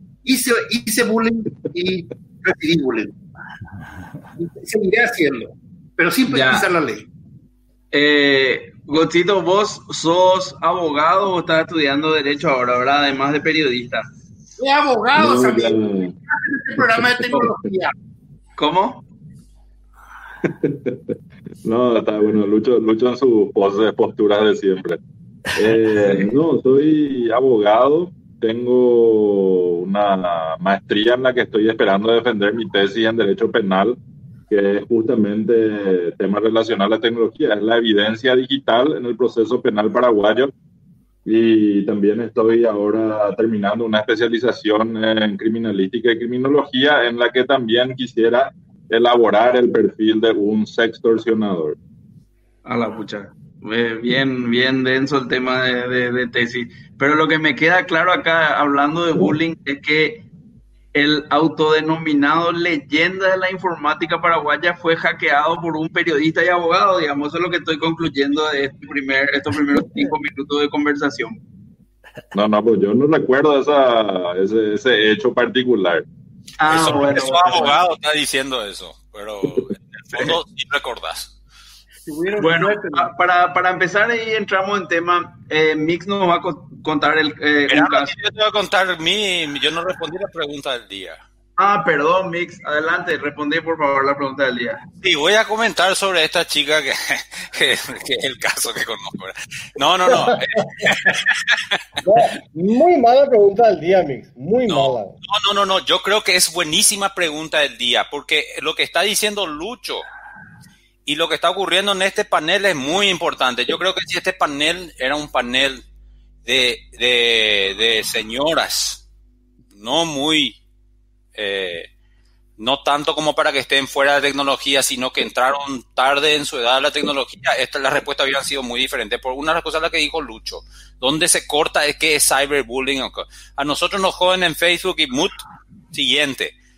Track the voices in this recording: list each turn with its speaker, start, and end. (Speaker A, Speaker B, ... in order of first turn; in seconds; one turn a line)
Speaker A: 0.2-3.1
Speaker A: 4.4-7.1
Speaker B: 6.3-6.7
Speaker B: 7.9-14.1
Speaker A: 14.6-17.9
Speaker C: 15.2-16.1
Speaker C: 16.8-17.5
Speaker B: 18.6-19.0
Speaker C: 20.4-21.0
Speaker C: 21.6-25.0
Speaker C: 25.6-34.0
Speaker C: 34.5-40.5
Speaker C: 41.2-51.8
Speaker B: 52.6-60.2
Speaker B: 60.9-71.4
Speaker C: 72.3-76.0
Speaker B: 76.6-77.8
Speaker D: 76.7-81.3
Speaker A: 82.1-83.1
Speaker B: 82.4-88.1
Speaker D: 87.7-91.2
Speaker B: 91.6-94.8
Speaker D: 95.0-101.8
Speaker E: 100.1-100.9
Speaker E: 102.0-105.2
Speaker D: 104.7-110.1
Speaker D: 111.1-115.8
Speaker D: 116.5-119.0
Speaker D: 119.8-120.6
Speaker D: 121.4-121.9
Speaker D: 122.6-136.6